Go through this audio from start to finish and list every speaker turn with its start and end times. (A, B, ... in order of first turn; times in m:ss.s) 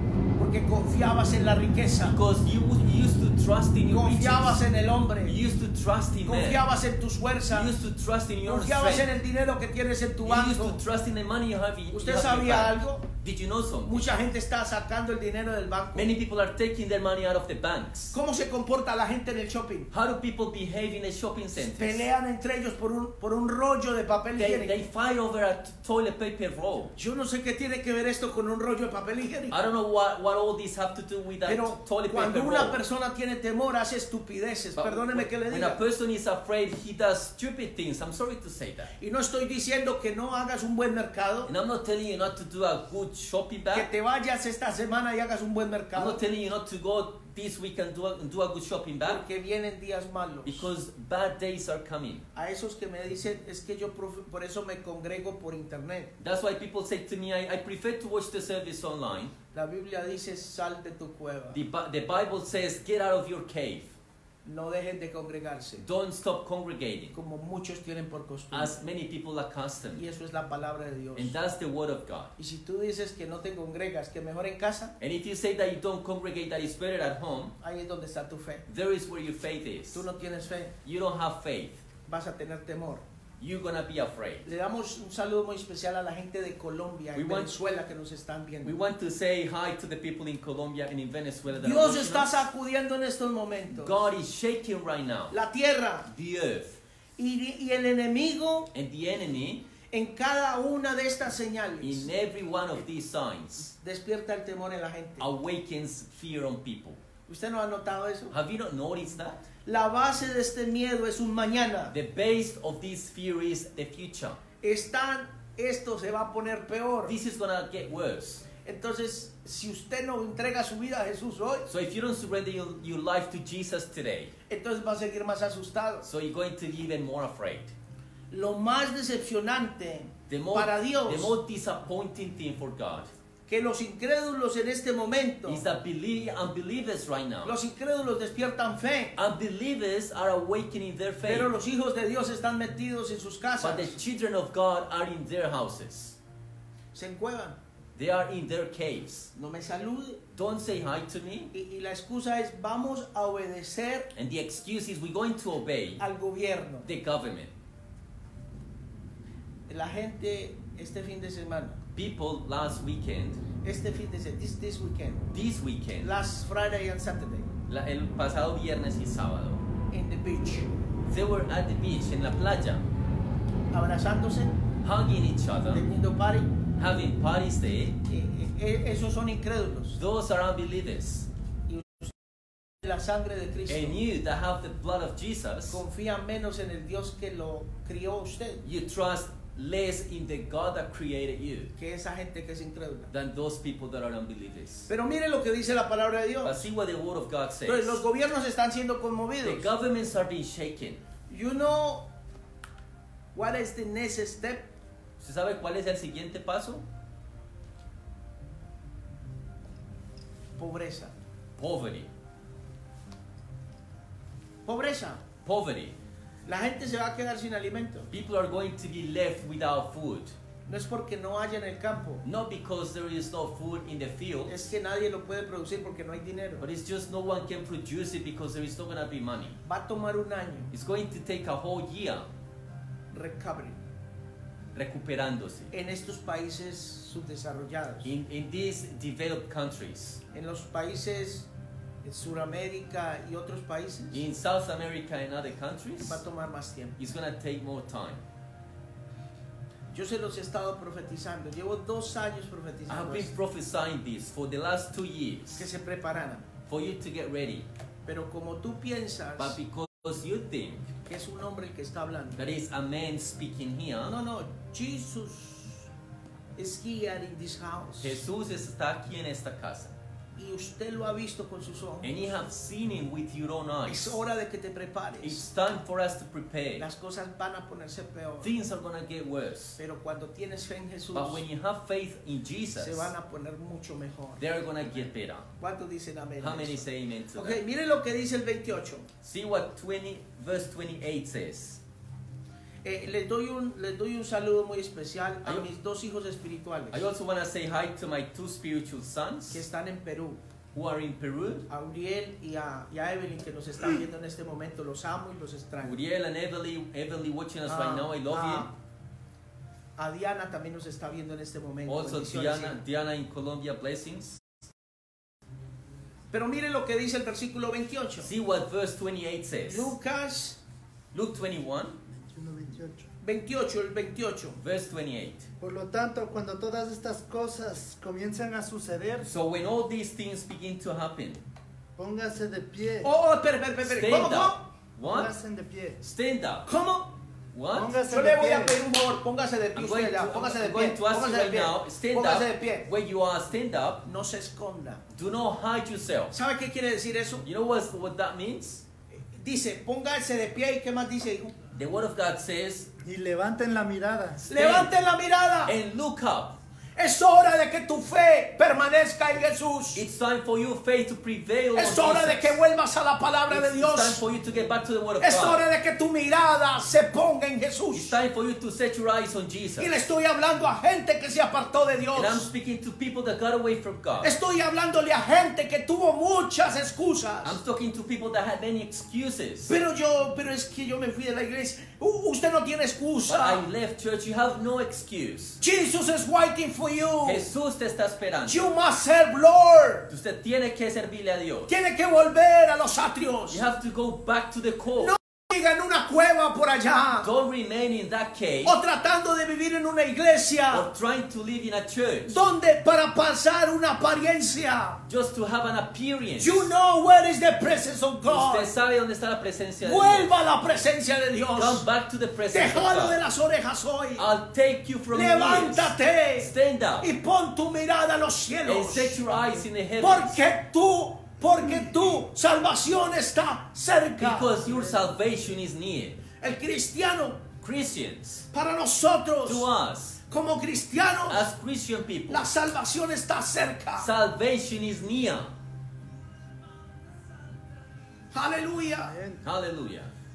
0:00.4-0:02.2 A
0:02.0-0:04.6 B
0:03.9-0:05.4 A
0:05.2-0:06.6 B
0:06.2-0:07.7 A
0:07.5-0:09.1 B
0:08.4-0:10.8 A
0:10.3-0:14.2 B
0:11.9-0:13.1 A
0:13.9-0:16.1 A
0:15.9-0:18.1 B
0:18.1-0:19.9 A
0:19.9-0:22.1 B
0:21.6-0:24.8 A
0:24.4-0:26.9 B
0:27.0-0:29.6 A
0:29.5-0:32.8 B
0:31.5-0:35.8 A
0:34.8-0:38.9 B
0:39.0-0:41.5 A
0:41.5-0:43.9 B
0:43.7-0:46.2 A
0:46.0-0:49.2 B
0:49.0-0:50.7 A
0:50.4-0:52.3 B
0:52.4-0:56.1 A
0:56.2-0:59.3 B
0:59.5-1:01.6 A
1:01.5-1:03.9 B
1:04.4-1:05.8 A
1:05.8-1:07.2 B
1:07.1-1:08.8 A
1:08.5-1:10.0 B
1:10.0-1:11.4 A
1:11.2-1:12.3 B
1:12.4-1:14.9 A
1:15.0-1:17.6 B
1:17.6-1:18.6 A
1:18.7-1:20.0 B
1:19.9-1:20.8 A
1:20.8-1:21.8 B
1:22.1-1:23.0 A
1:23.4-1:24.5 B
1:24.4-1:28.7 A
1:27.2-1:27.6 B
1:28.6-1:32.4 B
1:31.6-1:34.0 A
1:33.7-1:35.4 B
1:35.3-1:36.1 A
1:36.1-1:36.8 B
1:37.2-1:38.7 A
1:38.7-1:39.7 B
1:39.9-1:42.1 A
1:41.8-1:43.7 B
1:43.8-1:45.3 A
1:45.2-1:47.0 B
1:47.3-1:48.4 A
1:48.3-1:49.5 B
1:49.7-1:51.9 A
1:51.9-1:54.4 B
1:54.6-1:57.2 A
1:57.1-1:58.5 B
1:58.6-2:01.7 A
2:01.7-2:04.3 B
2:04.5-2:06.1 A
2:06.0-2:07.7 B
2:08.3-2:11.3 A
2:10.3-2:13.1 B
2:13.5-2:15.6 A
2:15.5-2:17.6 B
2:17.4-2:19.2 A
2:19.2-2:21.5 B
2:21.2-2:24.0 A
2:23.6-2:26.2 B
2:26.9-2:27.6 A
2:28.0-2:29.3 B
2:29.4-2:30.2 A
2:30.4-2:31.5 B
2:31.5-2:34.1 A
2:34.1-2:36.0 B
2:36.0-2:36.9 A
2:36.8-2:37.5 B
2:39.7-2:41.8 A
2:42.0-2:43.4 B
2:43.6-2:45.4 A
2:45.3-2:46.1 B
2:46.0-2:47.5 A
2:47.7-2:49.6 B
2:49.9-2:50.7 A
2:51.1-2:52.8 B
2:53.7-2:54.6 A
2:54.8-2:55.9 B
2:55.7-2:56.5 A
2:56.8-2:58.0 B
2:58.0-3:00.0 A
3:00.0-3:01.3 B
3:01.7-3:02.2 A
3:02.8-3:04.0 A
3:03.7-3:05.8 B
3:05.7-3:08.6 A
3:08.6-3:11.7 B
3:11.8-3:13.1 A
3:13.1-3:14.9 B
3:14.9-3:16.6 A
3:16.4-3:18.0 B
3:17.7-3:19.7 A
3:19.4-3:21.0 B
3:21.3-3:22.1 A
3:23.4-3:24.7 A
3:25.2-3:26.8 B
3:30.6-3:31.1 A
3:31.6-3:32.1 B
3:34.7-3:35.2 A
3:35.4-3:36.0 B
3:36.5-3:38.1 A
3:38.1-3:40.3 B
3:40.7-3:42.2 A
3:42.2-3:44.6 B
3:44.5-3:46.7 A
3:46.6-3:49.6 B
3:49.6-3:50.7 A
3:50.7-3:52.3 B
3:53.1-3:53.8 A
3:54.8-3:55.7 B
3:55.7-3:58.1 A
3:58.0-4:00.2 B
4:00.3-4:01.5 A
4:02.0-4:04.2 A
4:04.1-4:06.2 B
4:06.0-4:07.0 A
4:07.0-4:08.2 B
4:09.9-4:13.3 A
4:12.9-4:15.7 B
4:15.6-4:16.5 A
4:16.7-4:17.7 B
4:18.1-4:19.6 A
4:19.4-4:20.9 B
4:21.0-4:22.5 A
4:22.4-4:24.2 B
4:24.0-4:25.9 A
4:26.6-4:28.2 A
4:28.0-4:29.9 B
4:30.4-4:32.1 A
4:32.0-4:34.2 B
4:33.9-4:35.4 A
4:35.2-4:36.9 B
4:36.8-4:38.5 A
4:38.4-4:39.8 B
4:39.8-4:41.4 A
4:41.2-4:43.1 B
4:42.8-4:45.1 A
4:44.4-4:45.5 B
4:45.6-4:46.8 A
4:46.4-4:47.6 B
4:47.4-4:49.1 A
4:49.2-4:51.8 B
4:52.8-4:57.0 A
4:56.9-4:59.6 B
4:59.5-5:00.4 A
5:00.7-5:01.7 B
5:01.7-5:06.0 A
5:05.8-5:08.7 B
5:07.7-5:08.7 A
5:10.0-5:12.8 A
5:11.9-5:14.4 B
5:16.3-5:18.3 A
5:18.2-5:19.9 B
5:19.7-5:20.6 A
5:21.1-5:22.0 B
5:22.2-5:23.1 C
5:23.2-5:24.6 A
5:24.6-5:25.5 B
5:25.6-5:29.3 C
5:29.2-5:31.4 B
5:32.0-5:33.1 C
5:33.0-5:34.6 A
5:33.9-5:35.3 B
5:35.1-5:36.0 C
5:36.0-5:36.7 B
5:36.7-5:37.2 A
5:37.5-5:38.0 B
5:37.7-5:38.8 C
5:38.1-5:42.9 A
5:39.8-5:44.1 B
5:44.0-5:45.0 A
5:45.1-5:46.4 B
5:46.3-5:47.5 A
5:47.4-5:48.8 B
5:49.3-5:51.6 A
5:51.7-5:52.9 B
5:53.0-5:54.5 C
5:54.5-5:54.9 B
5:54.5-5:55.7 A
5:55.7-5:56.6 B
5:57.0-6:00.0 A
6:00.0-6:02.6 B
6:01.8-6:04.2 A
6:03.5-6:05.6 B
6:05.2-6:08.2 A
6:07.9-6:10.0 B
6:09.8-6:12.5 A
6:12.2-6:14.4 B
6:14.2-6:17.6 A
6:17.4-6:19.7 B
6:19.7-6:23.6 A
6:23.3-6:25.6 B
6:25.6-6:27.5 A
6:27.2-6:28.7 B
6:28.5-6:30.1 A
6:30.1-6:31.7 B
6:31.7-6:33.6 A
6:33.5-6:35.2 B
6:35.0-6:37.3 A
6:37.2-6:38.8 B
6:38.6-6:40.9 A
6:40.7-6:42.5 B
6:42.3-6:45.0 A
6:45.1-6:46.7 B
6:46.4-6:48.7 A
6:48.3-6:50.4 B
6:49.8-6:51.8 A
6:51.6-6:53.2 B
6:52.5-6:54.3 A
6:54.2-6:57.1 B
6:55.1-6:59.2 A
6:58.7-7:00.4 B
7:00.0-7:04.7 A
7:04.2-7:06.2 B
7:06.4-7:07.5 A
7:07.6-7:08.5 B
7:08.5-7:09.7 A
7:09.5-7:10.2 B
7:10.3-7:11.5 A
7:11.3-7:12.5 B
7:12.3-7:14.1 A
7:14.0-7:15.5 B
7:18.3-7:19.2 A
7:19.0-7:19.4 C
7:19.4-7:20.1 B